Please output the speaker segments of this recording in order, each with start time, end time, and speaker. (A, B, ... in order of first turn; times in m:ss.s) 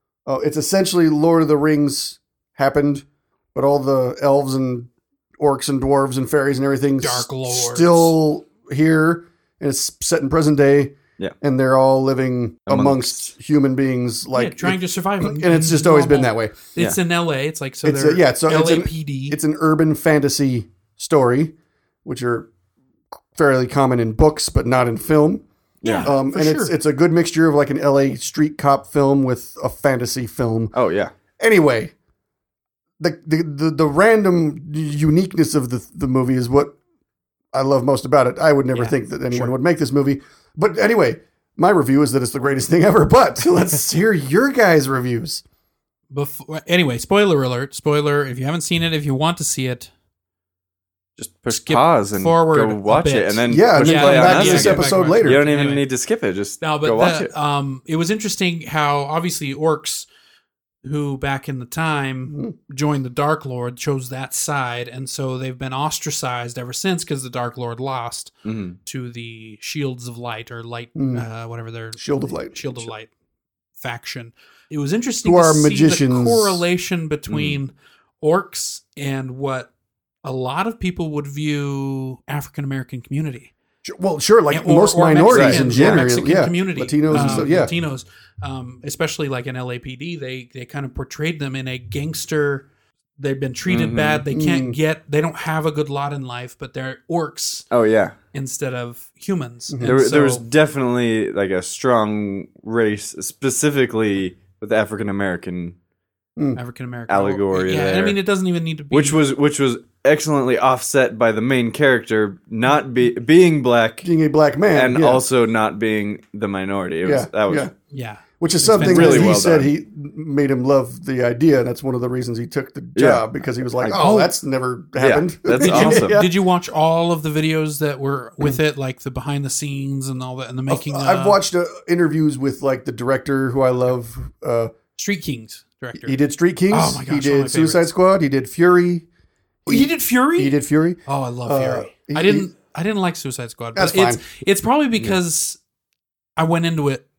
0:00.3-0:16.6 A
0:07.0-0:08.2 B
0:12.7-0:13.3 C
0:14.3-0:19.4 B
0:17.8-0:21.5 A
0:22.0-0:22.5 A
0:23.4-0:25.4 A
0:25.8-0:26.1 C
0:25.8-0:26.8 B
0:26.0-0:30.7 A
0:30.7-0:31.1 C
0:31.4-0:31.9 A
0:33.0-0:36.8 A
0:37.5-0:45.4 A
0:38.7-0:39.5 B
0:46.1-0:49.9 B
0:51.2-0:57.3 C
0:51.5-0:55.8 B
0:53.5-0:55.4 A
0:56.6-1:00.1 B
1:00.8-1:13.1 B
1:02.3-1:02.6 A
1:08.4-1:08.8 C
1:11.0-1:11.3 A
1:12.0-1:12.9 A
1:13.8-1:19.7 B
1:15.2-1:16.6 A
1:17.3-1:17.6 C
1:20.2-1:23.5 B
1:23.8-1:27.7 A
1:24.5-1:32.7 B
1:25.3-1:26.0 C
1:27.1-1:27.5 C
1:33.2-1:37.7 B
1:33.7-1:34.2 C
1:34.3-1:34.8 A
1:37.7-1:38.2 C
1:38.3-1:40.4 B
1:39.8-1:45.8 C
1:46.6-1:49.2 B
1:47.1-1:48.2 C
1:48.9-1:54.1 C
1:54.0-1:55.2 A
1:54.7-1:57.7 C
1:57.0-1:57.7 A
1:57.9-1:59.4 B
1:58.4-2:06.3 A
1:58.7-1:59.7 C
2:03.0-2:03.2 C
2:03.8-2:04.3 C
2:05.0-2:06.2 C
2:05.6-2:11.4 B
2:10.7-2:14.7 A
2:15.0-2:16.2 B
2:16.0-2:19.1 A
2:16.7-2:17.9 B
2:19.6-2:22.5 A
2:19.7-2:25.6 B
2:23.8-2:24.2 A
2:26.4-2:27.0 B